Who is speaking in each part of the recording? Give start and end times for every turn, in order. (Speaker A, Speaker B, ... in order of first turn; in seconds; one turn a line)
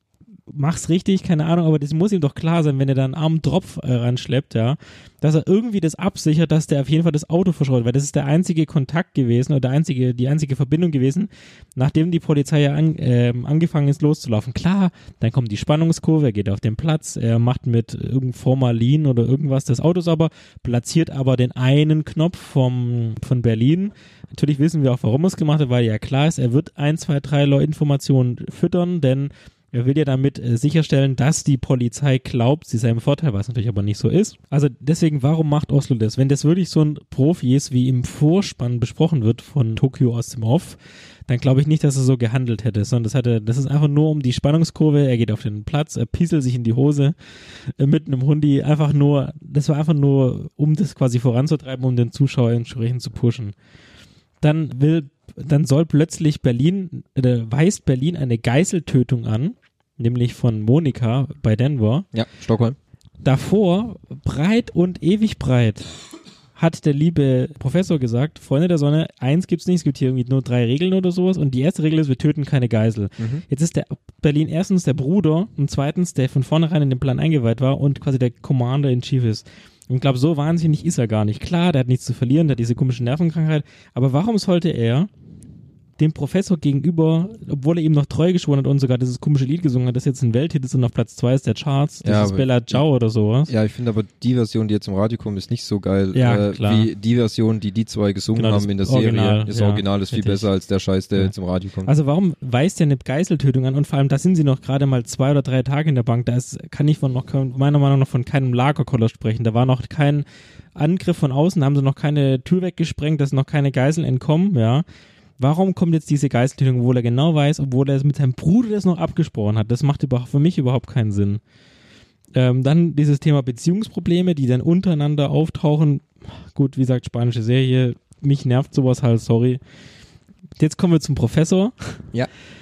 Speaker A: 0.5-40.8
Speaker A: 41.3-47.1
Speaker A: 47.8-53.5
Speaker A: 54.4-62.1
Speaker B: 62.1-62.8
Speaker A: 63.2-65.9
Speaker A: 66.5-85.1
Speaker B: 73.2-73.4
Speaker A: 86.0-93.5
Speaker B: 92.0-92.8
Speaker B: 93.5-101.9
Speaker A: 96.1-96.9
Speaker A: 98.3-100.5
Speaker A: 101.8-114.8
Speaker A: 115.4-121.4
Speaker A: 122.3-129.6
Speaker A: 130.6-132.0